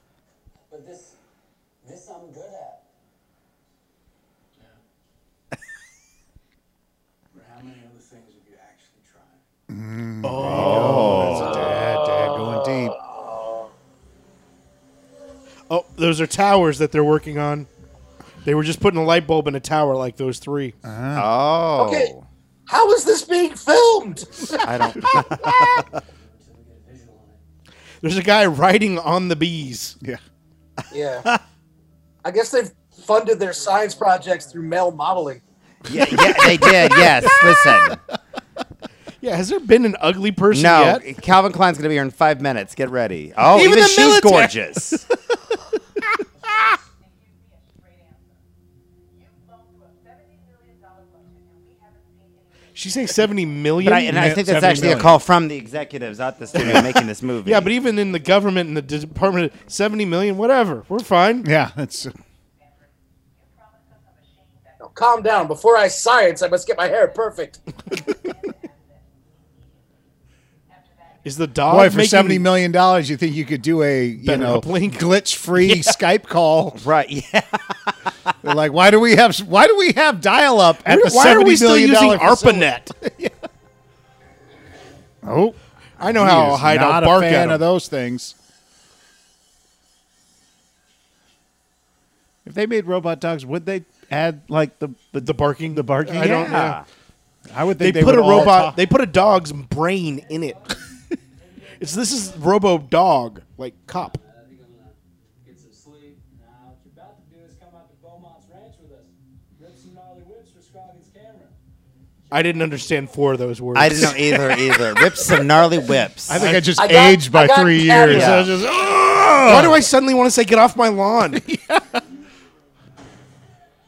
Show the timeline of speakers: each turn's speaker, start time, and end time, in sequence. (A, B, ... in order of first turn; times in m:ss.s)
0:00.7-0:01.2 A
0:01.8-0:02.8 A
0:07.3-0:09.4 A
0:09.7-0:13.0 B
0:10.2-0:11.8 C
0:10.4-0:11.8 D
0:11.6-0:13.7 E
0:15.7-0:17.7 C
0:18.4-0:20.8 C
0:20.8-0:21.3 B
0:21.1-0:22.2 D
0:21.8-0:22.1 E
0:22.7-0:25.0 E
0:24.6-0:26.0 D
0:25.5-0:27.4 A
0:28.0-0:30.0 C
0:30.9-0:31.3 E
0:32.2-0:35.4 E
0:33.3-0:37.2 A
0:35.9-0:38.0 D
0:36.0-0:38.0 B
0:39.2-0:41.0 C
0:40.5-0:45.0 D
0:43.4-0:44.6 C
0:46.4-0:48.4 F
0:49.2-0:53.6 F
0:52.7-0:54.6 C
0:53.8-0:57.7 D
0:54.0-0:55.2 B
0:55.4-0:56.8 A
0:56.5-1:01.5 C
0:58.2-0:59.5 A
1:01.4-1:02.1 B
1:03.4-1:09.0 F
1:04.8-1:07.6 E
1:10.7-1:11.4 F
1:11.2-1:12.5 C
1:11.7-1:16.8 B
1:14.2-1:15.9 C
1:16.7-1:18.1 D
1:18.4-1:23.3 B
1:20.8-1:22.9 C
1:25.2-1:28.3 B
1:26.0-1:27.6 C
1:32.4-1:36.7 B
1:35.2-1:36.8 C
1:36.1-1:36.8 D
1:37.5-1:38.8 B
1:37.8-1:40.6 C
1:40.3-1:40.7 A
1:41.4-1:42.4 A
1:41.8-1:44.2 C
1:43.9-1:51.5 A
1:52.3-1:54.3 C
1:53.7-1:56.4 D
1:56.3-1:59.8 B
1:56.3-1:56.7 C
1:56.8-1:58.4 E
1:58.0-1:58.5 D
1:58.1-1:58.4 C
1:59.4-2:01.4 C
2:01.3-2:02.0 B